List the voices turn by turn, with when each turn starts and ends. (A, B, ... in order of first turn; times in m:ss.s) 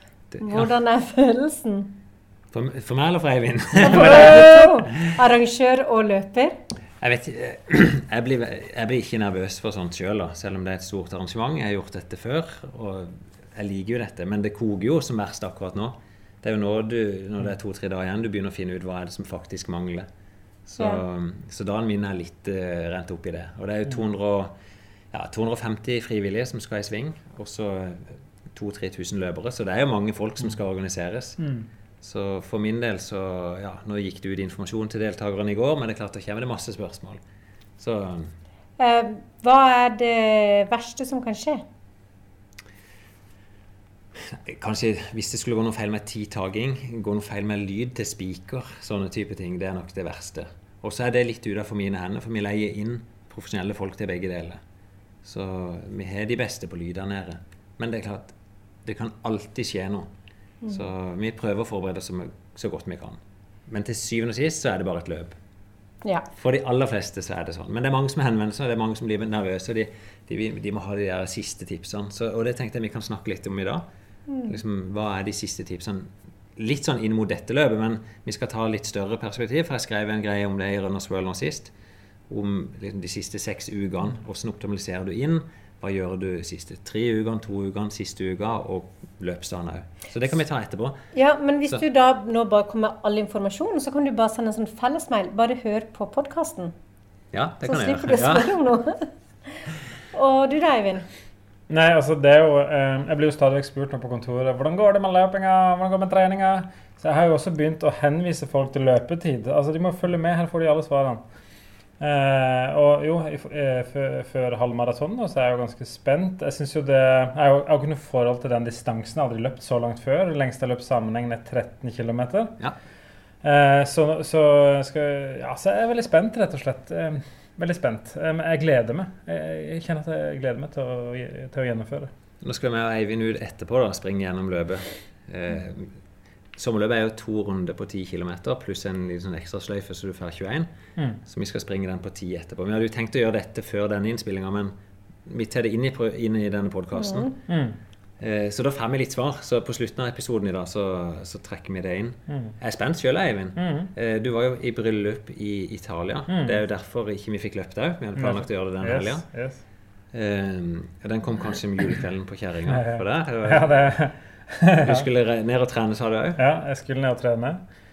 0:00.3-0:00.7 A
0:00.4-0:01.9 B
0:02.5-0:04.7 A
0:03.8-0:06.6 B
0:07.0-0:20.1 A
0:20.7-0:24.5 A
0:25.1-0:31.4 A
0:32.0-0:37.2 A
0:37.8-0:38.3 A
0:38.8-0:41.6 B
0:44.2-0:54.6 A
0:55.2-1:00.1 A
1:00.7-1:05.4 A
1:06.4-1:13.8 A
1:14.3-1:14.6 B
1:14.5-1:21.7 A
1:22.3-1:31.0 A
1:31.1-1:36.7 B
1:37.3-1:38.6 A
1:37.6-1:41.1 B
1:41.7-1:51.2 C
1:52.0-2:02.6 C
2:03.4-2:12.1 C
2:12.4-2:16.0 A
2:16.6-2:20.7 A
2:21.2-2:24.7 A
2:25.2-2:27.3 A
2:27.0-2:27.3 B
2:27.5-2:27.8 C
2:28.2-2:39.3 A
2:32.3-2:32.6 C
2:33.6-2:33.9 C
2:36.3-2:36.6 C
2:38.2-2:39.6 C
2:40.1-2:43.7 A
2:42.7-2:45.1 C
2:44.8-2:46.4 A
2:46.4-2:47.6 C